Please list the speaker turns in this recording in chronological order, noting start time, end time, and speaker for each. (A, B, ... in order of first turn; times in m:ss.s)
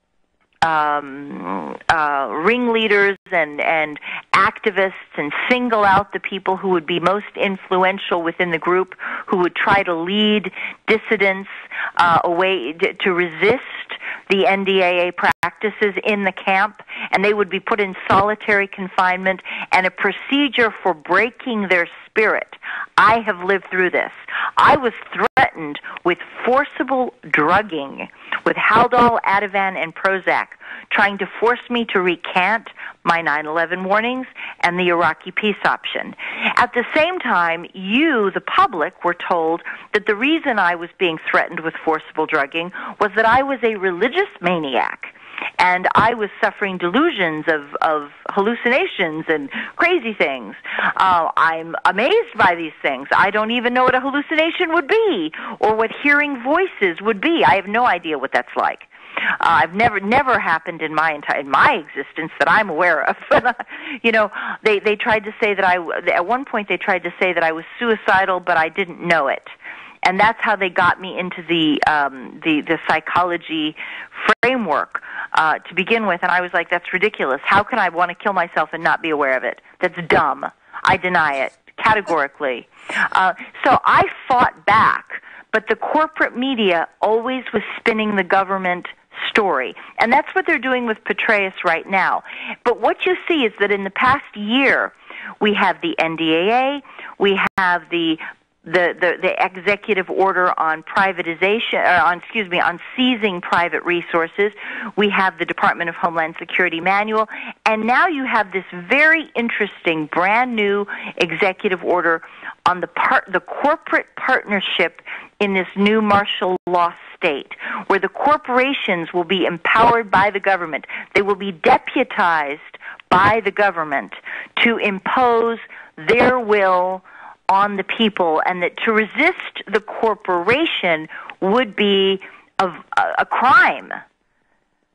0:00.6-0:58.9 A
0:59.4-1:09.5 A
1:10.0-2:14.0 A